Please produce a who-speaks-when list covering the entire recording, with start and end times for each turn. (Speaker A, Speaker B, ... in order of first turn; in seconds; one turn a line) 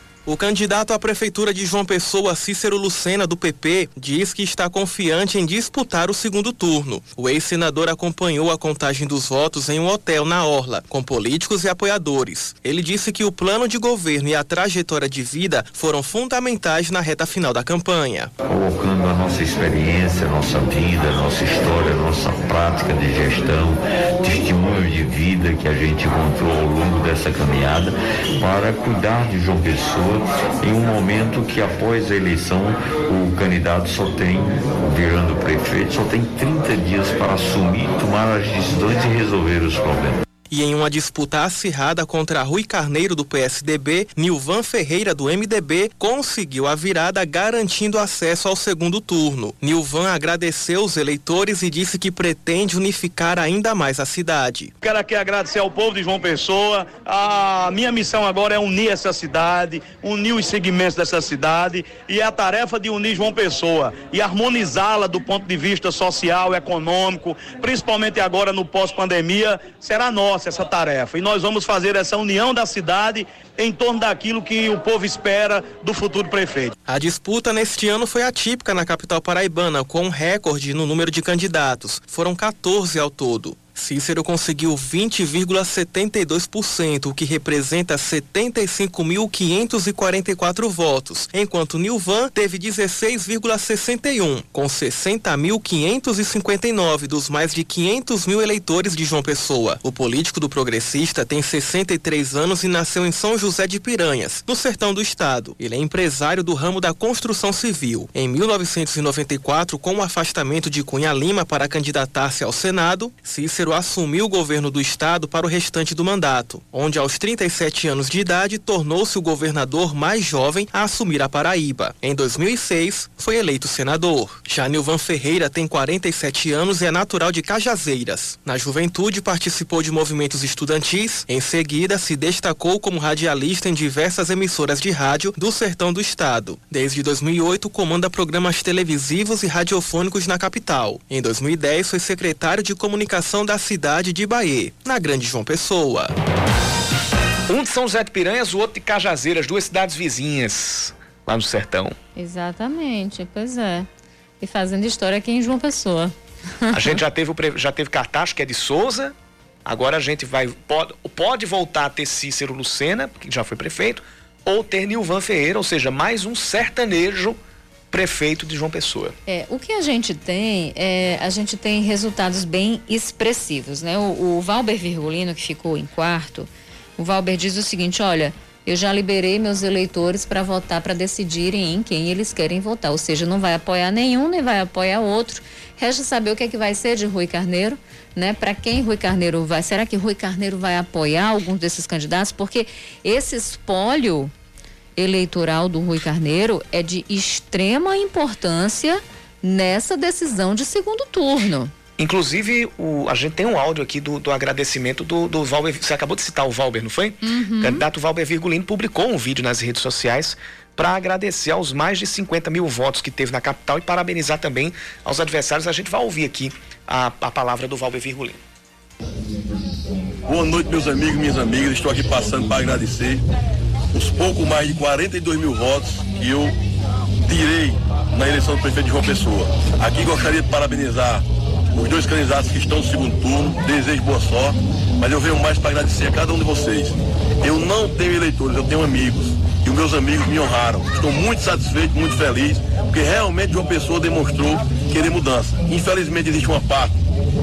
Speaker A: 0.2-18.3
Speaker B: 18.4-40.2
Speaker A: 40.5-54.7
Speaker C: 54.8-76.7
Speaker A: 76.8-146.1
Speaker D: 147.5-152.0
Speaker E: 152.2-153.9
Speaker E: 154.4-157.0
Speaker D: 156.7-159.1
Speaker D: 159.7-167.4
Speaker D: 167.9-169.1
Speaker E: 169.2-194.3
Speaker E: 194.9-201.7
Speaker D: 202.0-218.4
Speaker E: 207.2-207.8
Speaker F: 220.3-223.2
Speaker F: 223.9-226.5
Speaker F: 227.2-246.9